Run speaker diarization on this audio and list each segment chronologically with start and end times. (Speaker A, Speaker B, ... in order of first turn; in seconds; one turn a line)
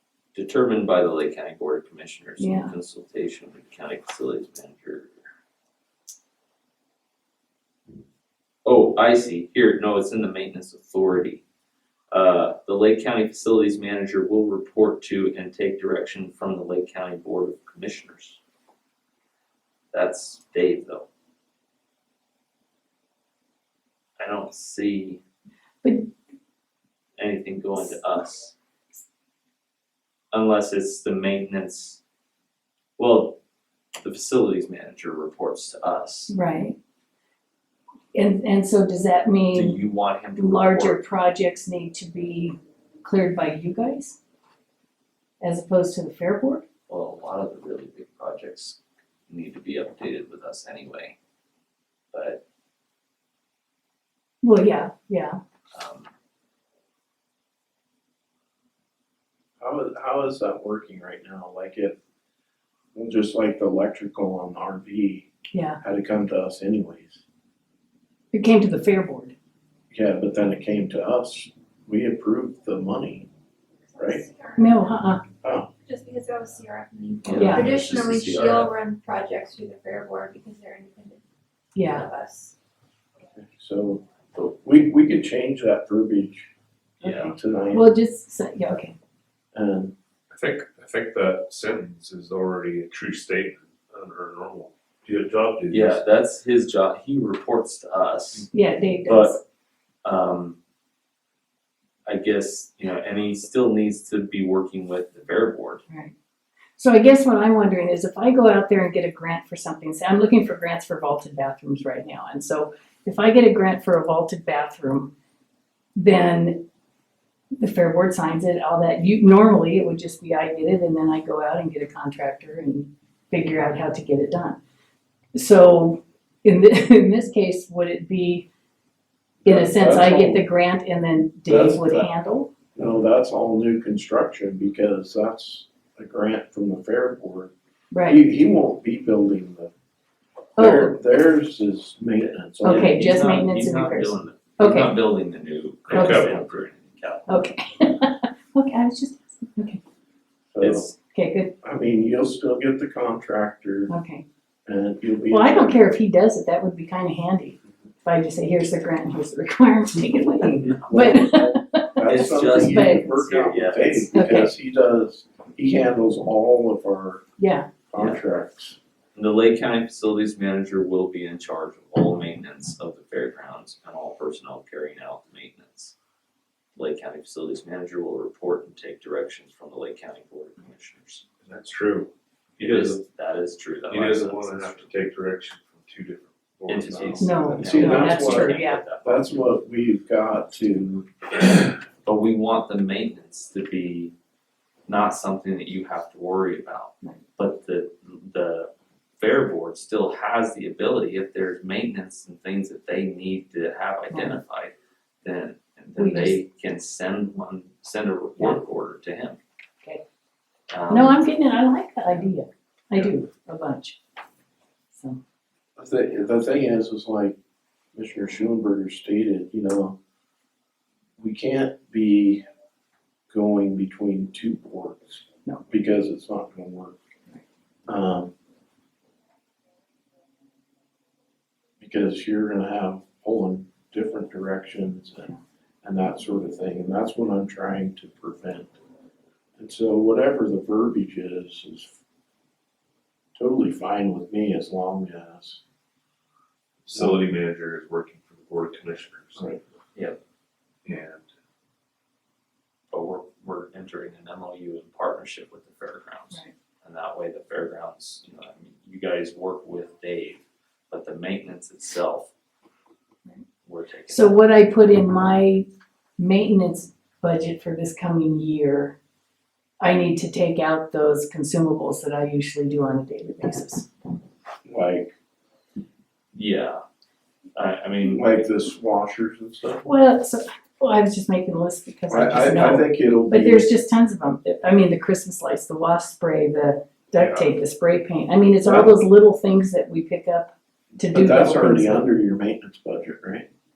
Speaker A: 0.3-5.1
Speaker B: 2.4-2.7
Speaker A: 8.6-11.4
Speaker A: 12.1-18.4
Speaker A: 19.9-21.1
Speaker A: 24.2-25.2
Speaker B: 25.8-26.1
Speaker A: 27.2-28.5
Speaker A: 30.3-32.0
Speaker A: 33.0-33.4
Speaker A: 34.0-36.3
Speaker B: 36.3-36.8
Speaker B: 38.1-39.8
Speaker A: 39.5-41.0
Speaker B: 40.4-44.2
Speaker B: 45.4-46.6
Speaker A: 46.9-48.8
Speaker A: 49.3-51.1
Speaker A: 52.1-52.4
Speaker B: 54.4-55.4
Speaker A: 55.7-56.1
Speaker C: 59.6-62.0
Speaker C: 62.9-65.3
Speaker B: 65.5-65.8
Speaker C: 65.8-67.2
Speaker B: 68.3-69.3
Speaker C: 69.9-73.3
Speaker D: 73.9-74.7
Speaker C: 74.0-74.2
Speaker B: 74.5-75.2
Speaker C: 75.4-75.7
Speaker D: 75.8-81.2
Speaker A: 77.2-78.7
Speaker B: 77.3-77.7
Speaker B: 81.7-82.1
Speaker D: 81.8-82.5
Speaker C: 83.3-86.5
Speaker A: 87.0-87.3
Speaker B: 87.0-89.0
Speaker C: 87.3-87.9
Speaker C: 89.5-89.9
Speaker E: 90.3-96.0
Speaker A: 95.7-98.5
Speaker B: 98.5-99.4
Speaker A: 99.0-99.4
Speaker A: 100.0-100.6
Speaker A: 102.0-105.8
Speaker B: 106.8-115.1
Speaker B: 116.0-116.7
Speaker B: 117.6-124.6
Speaker B: 125.3-128.5
Speaker C: 129.4-130.4
Speaker B: 129.4-132.5
Speaker C: 131.4-132.1
Speaker C: 132.7-137.5
Speaker B: 137.9-138.2
Speaker C: 138.1-139.7
Speaker C: 140.6-143.0
Speaker B: 140.6-141.0
Speaker B: 142.6-145.0
Speaker A: 142.6-147.3
Speaker E: 145.9-146.4
Speaker B: 145.9-146.3
Speaker B: 147.3-149.8
Speaker C: 150.5-150.9
Speaker A: 150.6-150.9
Speaker B: 151.1-151.5
Speaker C: 151.6-153.9
Speaker B: 153.9-154.2
Speaker C: 154.7-155.8
Speaker B: 155.3-163.1
Speaker A: 160.4-161.3
Speaker C: 160.9-167.2
Speaker A: 162.1-164.1
Speaker B: 164.1-164.5
Speaker B: 167.4-167.7
Speaker C: 167.9-168.8
Speaker A: 169.2-175.9
Speaker A: 176.8-181.2
Speaker E: 181.4-183.0
Speaker A: 182.6-184.9
Speaker E: 183.9-187.8
Speaker A: 186.7-189.3
Speaker B: 187.2-188.8
Speaker C: 187.5-191.1
Speaker A: 192.0-194.1
Speaker A: 194.9-209.4
Speaker B: 204.1-204.4
Speaker B: 205.9-206.4
Speaker A: 210.7-211.2
Speaker B: 210.9-214.0
Speaker B: 214.9-215.2
Speaker C: 215.8-217.3
Speaker C: 217.9-220.0
Speaker C: 221.2-222.4
Speaker C: 223.3-226.9
Speaker C: 227.9-228.3
Speaker C: 231.8-238.7
Speaker C: 239.6-242.0
Speaker C: 243.3-245.6
Speaker E: 246.8-249.6
Speaker C: 246.9-247.2
Speaker E: 250.8-251.3
Speaker A: 252.9-262.3
Speaker A: 263.6-264.4
Speaker B: 264.1-265.7
Speaker B: 266.2-268.9
Speaker B: 269.8-273.9
Speaker C: 274.6-275.1
Speaker A: 276.3-276.8
Speaker A: 277.6-278.3
Speaker C: 278.1-279.9
Speaker B: 279.8-292.1
Speaker C: 282.1-283.7
Speaker E: 287.1-287.5
Speaker C: 288.6-289.0
Speaker C: 291.1-293.5